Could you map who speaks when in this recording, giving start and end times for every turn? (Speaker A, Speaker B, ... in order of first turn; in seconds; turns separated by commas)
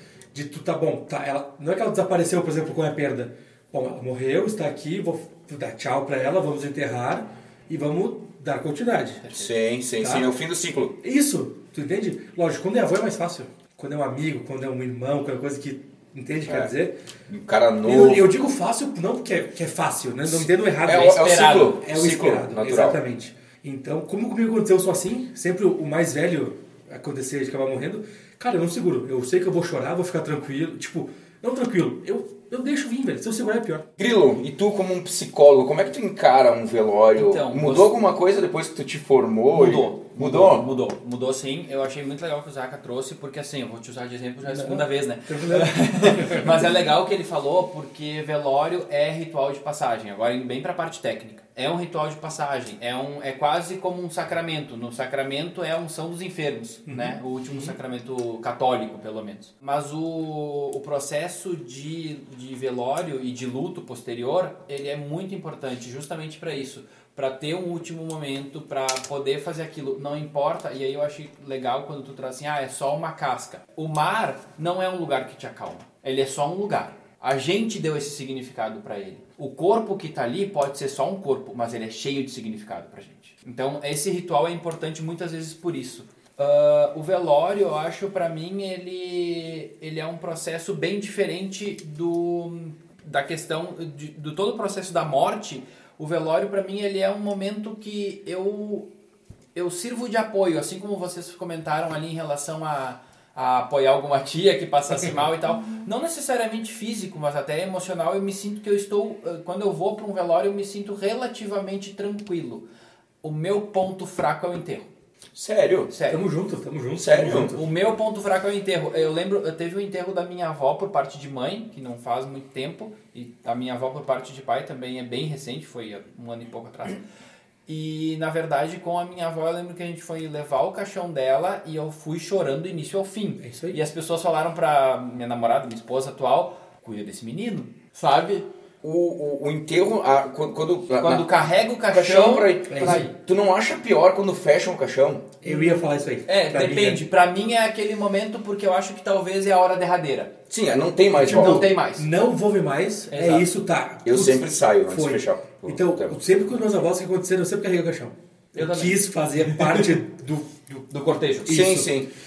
Speaker A: 0.3-9.2, Speaker B: 9.2-9.5, Speaker C: 9.3-11.0, Speaker A: 10.0-10.3, Speaker A: 11.0-17.0, Speaker C: 17.3-18.2, Speaker A: 17.8-33.9, Speaker C: 20.3-23.0, Speaker B: 21.2-21.8, Speaker C: 34.0-40.7, Speaker B: 37.1-38.0, Speaker B: 39.5-98.9, Speaker A: 44.4-46.7, Speaker A: 56.9-57.8, Speaker B: 99.5-112.7, Speaker B: 113.2-114.9, Speaker C: 115.3-115.9, Speaker B: 115.9-116.2, Speaker A: 116.1-117.7, Speaker C: 117.0-117.5, Speaker B: 117.4-127.0, Speaker B: 127.7-138.5, Speaker A: 133.4-133.8, Speaker C: 138.8-141.3, Speaker B: 141.0-143.1, Speaker C: 141.9-145.4, Speaker A: 142.7-143.1, Speaker A: 145.4-147.0, Speaker B: 146.3-150.3, Speaker C: 150.5-151.7, Speaker A: 151.1-160.9, Speaker B: 151.2-152.1, Speaker B: 153.1-153.5, Speaker C: 154.1-156.2, Speaker B: 158.6-159.0, Speaker B: 160.9-161.8, Speaker A: 161.5-161.9, Speaker C: 161.5-162.1